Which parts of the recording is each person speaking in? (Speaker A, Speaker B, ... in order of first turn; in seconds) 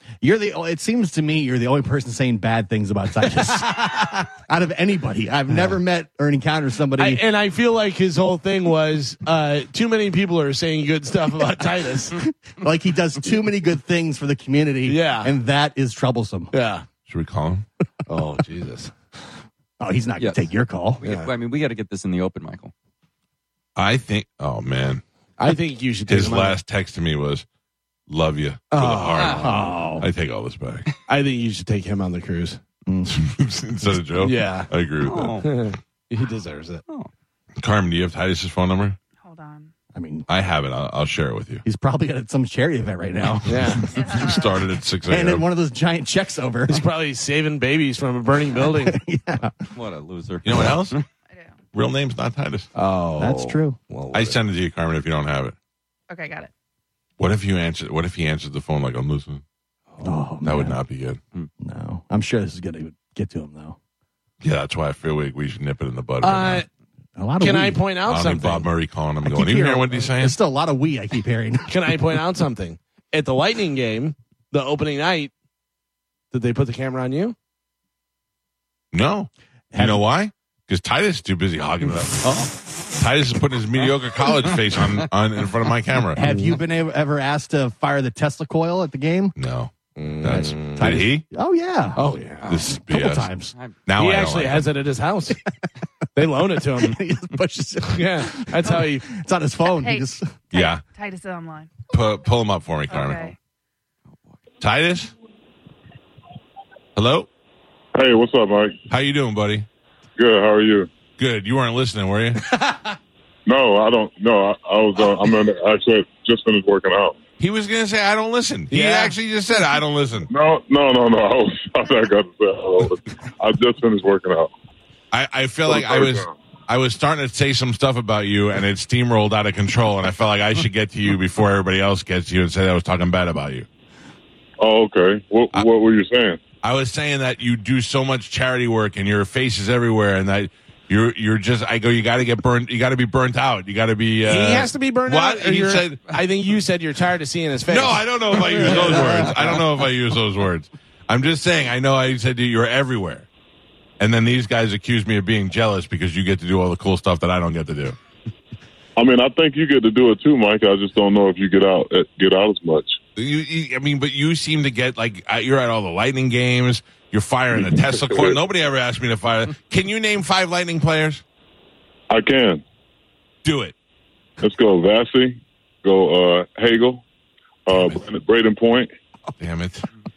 Speaker A: 0.2-7.2, 12.2-16.5, 19.8-21.0, 29.4-30.1, 32.9-33.1, 39.9-40.3, 41.6-44.0, 45.1-46.8, 48.8-49.5, 53.2-53.8, 60.0-60.8, 61.6-63.8, 67.2-67.8, 69.2-72.0, 79.7-80.0, 86.2-89.3, 90.3-92.0, 92.6-93.5, 96.8-100.3
Speaker B: 5.5-5.8, 7.0-12.2, 14.8-15.3, 16.5-16.8, 18.1-18.9, 21.0-21.3, 25.4-26.6, 28.7-29.7, 31.1-32.6, 34.2-34.7, 35.4-36.8, 43.5-43.9, 46.7-49.0, 52.7-54.4, 59.9-60.2, 66.2-66.7, 67.4-68.7, 71.7-75.3, 76.3-77.3, 82.2-82.5, 86.2-86.6, 89.9-91.0, 91.9-92.6, 94.0-95.4, 96.1-97.0, 97.9-99.1, 118.7-119.2, 144.3-149.6
Speaker C: 17.1-17.6, 23.8-25.0, 26.1-27.4, 28.1-30.9, 33.1-35.4, 37.6-39.0, 40.3-41.6, 43.9-45.4, 50.4-51.0, 51.7-52.7, 54.1-55.5, 57.2-59.4, 60.4-61.2, 64.4-66.6, 68.1-70.3, 78.9-86.2, 89.3-91.2, 92.5-93.3, 93.8-94.7, 100.5-100.8, 101.9-103.3, 104.6-105.1, 107.0-107.3, 108.9-109.7, 111.2-112.5, 117.4-120.3, 125.1-133.7, 136.6-146.1, 147.7-153.3, 154.0-157.9, 163.2-171.2, 173.4-173.7, 177.7-178.0, 179.4-179.9
Speaker D: 21.0-22.7, 29.1-29.6, 35.0-35.5, 49.7-51.0
Speaker E: 39.2-39.7, 43.9-44.5, 51.3-51.6, 56.1-56.5, 99.6-101.7, 102.9-103.3
Speaker F: 107.9-108.8, 110.2-110.9, 113.5-117.2, 120.3-124.5, 125.7-126.3, 134.6-136.4, 159.0-163.0, 167.6-168.4, 172.1-172.6, 174.4-177.0, 177.7-178.9